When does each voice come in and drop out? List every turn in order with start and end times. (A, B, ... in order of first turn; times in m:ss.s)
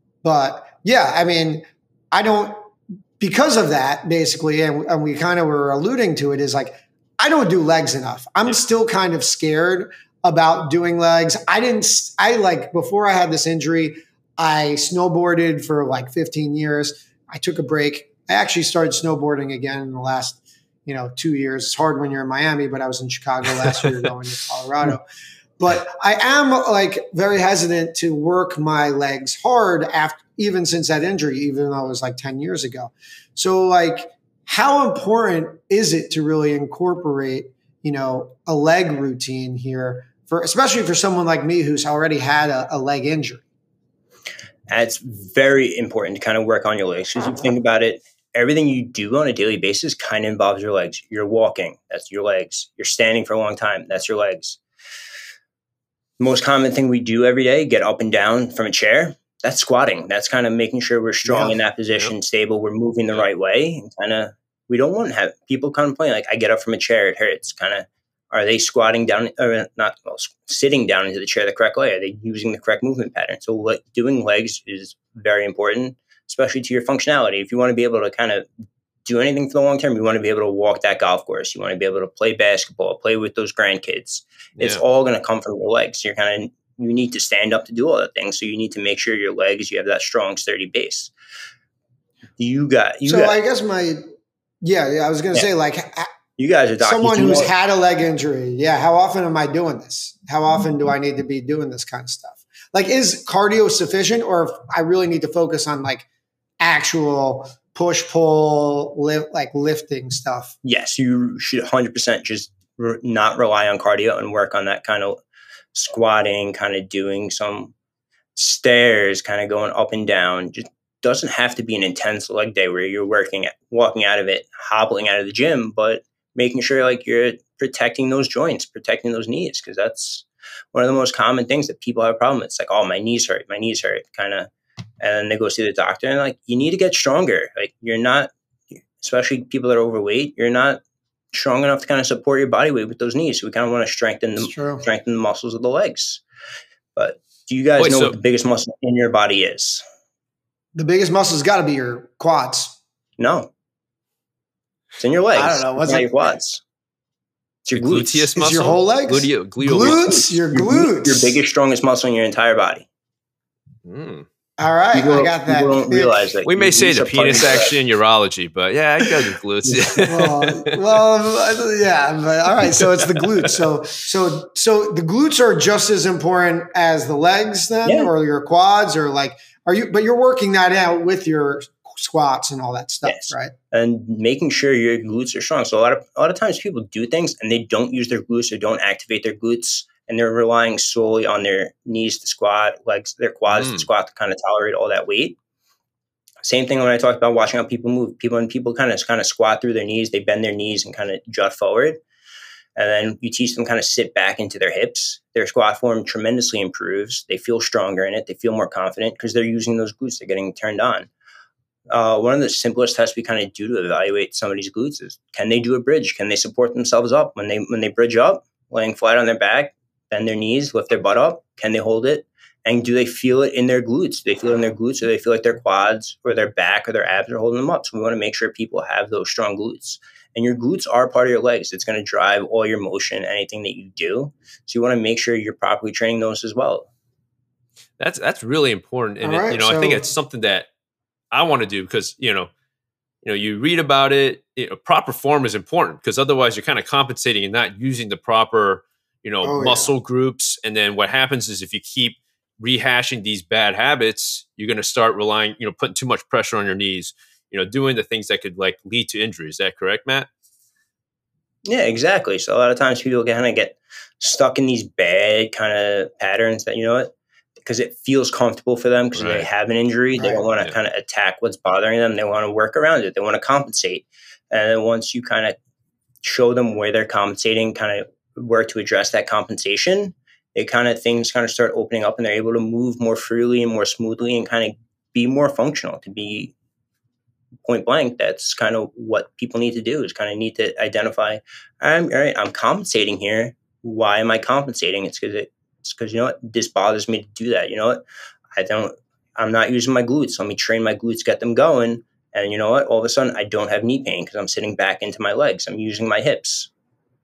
0:00.2-0:25.0 A
0:25.6-0:43.4 A
0:44.7-0:54.6 B
0:56.2-1:18.5 B
1:01.2-1:01.6 A
1:19.0-1:31.1 B
1:32.4-1:33.4 B
1:33.1-1:34.0 A
1:34.6-1:36.1 A
1:36.4-1:37.5 B
1:36.8-1:46.1 A
1:46.6-1:50.6 A
1:50.6-1:55.2 B
1:55.7-1:57.7 B
1:58.4-2:14.5 B
2:15.0-2:18.3 B
2:19.0-2:20.8 B
2:21.3-2:26.2 B
2:24.4-2:24.9 A
2:27.0-2:29.8 B
2:27.8-2:28.2 C
2:30.8-2:32.8 A
2:33.2-2:33.5 B
2:35.0-2:36.6 B
2:35.4-2:36.1 A
2:37.7-2:38.3 B
2:37.8-2:40.4 C
2:38.4-2:41.4 A
2:40.5-2:42.9 B
2:43.9-2:44.3 C
2:44.6-2:46.3 A
2:44.9-2:47.8 B
2:46.5-2:50.8 C
2:50.0-3:03.5 A
2:52.7-2:53.3 C
3:03.0-3:15.4 B
3:13.5-3:13.9 C
3:16.4-3:22.0 B
3:22.8-3:31.1 B
3:31.9-3:56.9 B
3:58.0-4:00.7 C
3:59.2-4:00.0 A
4:01.3-4:02.5 C
4:03.2-4:20.3 C
4:09.4-4:09.9 A
4:21.7-4:27.1 B
4:27.6-4:35.6 B
4:29.2-4:29.5 C
4:30.2-4:30.4 A
4:36.2-4:46.5 B
4:47.7-4:58.0 B
4:58.6-5:06.7 B